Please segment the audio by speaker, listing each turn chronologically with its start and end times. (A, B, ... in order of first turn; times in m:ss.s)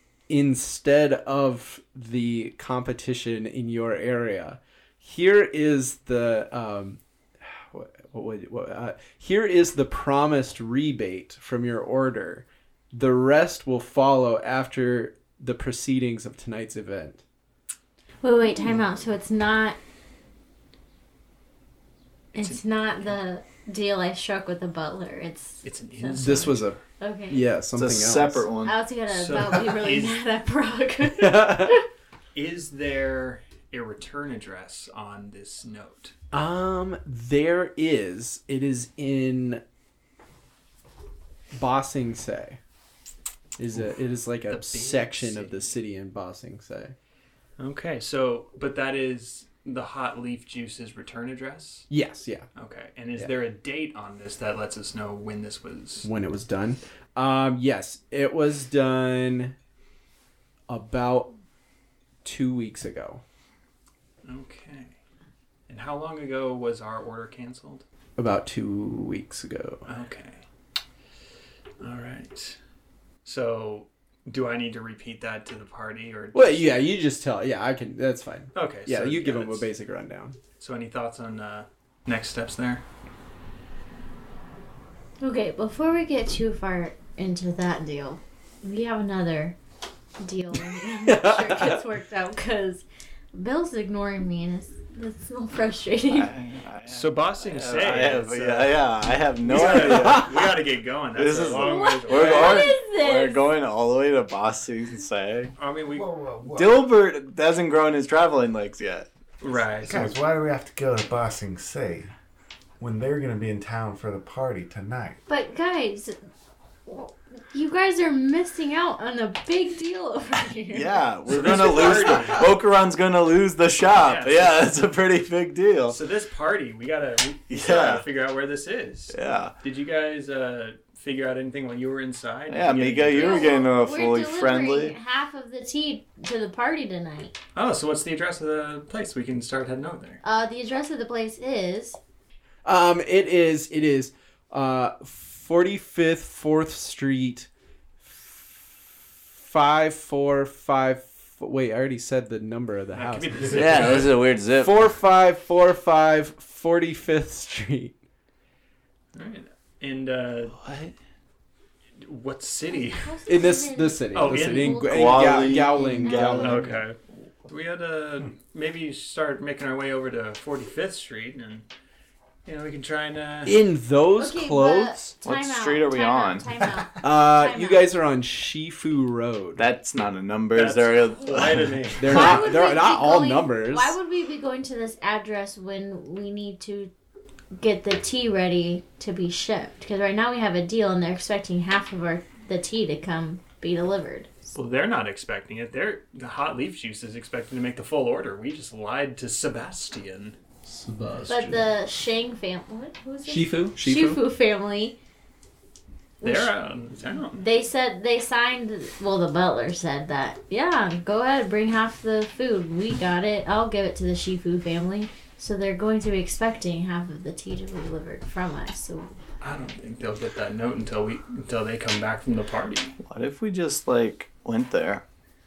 0:00.3-0:17.2 A
0:18.2-0:19.8 B
0:22.3-0:27.5 B
0:25.6-0:26.6 C
0:26.2-0:28.5 A
0:27.7-0:28.8 D
0:28.6-0:31.8 B
0:29.1-0:30.2 C
0:31.1-0:31.8 A
0:32.3-0:36.1 C
0:36.3-0:39.6 A
0:41.5-0:42.6 A
0:43.6-0:47.0 A
0:44.5-0:45.7 C
0:47.6-0:51.9 C
0:51.9-0:52.5 A
0:52.6-0:56.1 C
0:56.0-0:59.6 A
1:00.7-1:01.4 A
1:02.2-1:03.2 A
1:04.2-1:05.0 C
1:05.7-1:07.8 C
1:08.2-1:09.9 A
1:09.9-1:10.4 C
1:11.8-1:12.6 C
1:13.2-1:16.9 C
1:16.3-1:20.4 A
1:18.6-1:19.7 C
1:20.6-1:22.8 C
1:25.2-1:29.6 B
1:30.2-1:36.3 B
1:31.0-1:31.8 A
1:36.1-1:40.6 D
1:36.9-1:38.8 C
1:39.4-1:42.7 C
1:41.2-1:45.5 D
1:41.5-1:43.4 B
1:45.6-1:46.1 C
1:45.9-1:46.9 E
1:46.5-1:49.1 D
1:49.4-1:50.1 C
1:49.8-1:52.1 E
1:52.8-1:55.2 E
1:55.3-1:56.2 B
1:56.9-2:01.1 B
2:00.7-2:06.0 D
2:01.3-2:02.5 C
2:03.9-2:04.7 C
2:05.9-2:13.6 C
2:07.5-2:08.0 D
2:09.1-2:09.5 D
2:12.5-2:15.0 D
2:13.1-2:17.4 B
2:17.6-2:20.2 C
2:20.2-2:22.0 B
2:22.6-2:27.5 A
2:28.0-2:28.8 A
2:29.4-2:34.0 A
2:32.9-2:34.2 C
2:33.4-2:33.9 E
2:33.5-2:34.9 D
2:34.5-2:38.0 A
2:39.1-2:40.6 C
2:40.6-2:40.9 D
2:42.0-2:43.2 C
2:42.8-2:46.7 B
2:43.3-2:46.8 A
2:44.1-2:44.9 C
2:44.8-2:46.8 D
2:46.1-2:51.7 C
2:52.4-2:53.6 C
2:53.4-2:55.0 A
2:54.2-2:57.9 B
2:55.2-2:56.7 D
2:57.0-2:59.6 A
2:59.6-3:02.2 D
3:00.5-3:02.5 C
3:02.0-3:04.0 A
3:02.0-3:06.9 B
3:07.6-3:14.3 B
3:14.6-3:20.4 C
3:20.6-3:21.7 A
3:21.3-3:25.0 B
3:23.2-3:24.2 A
3:26.2-3:26.5 B
3:26.2-3:27.4 C
3:27.4-3:39.1 B
3:39.4-3:43.0 C
3:43.0-3:45.0 D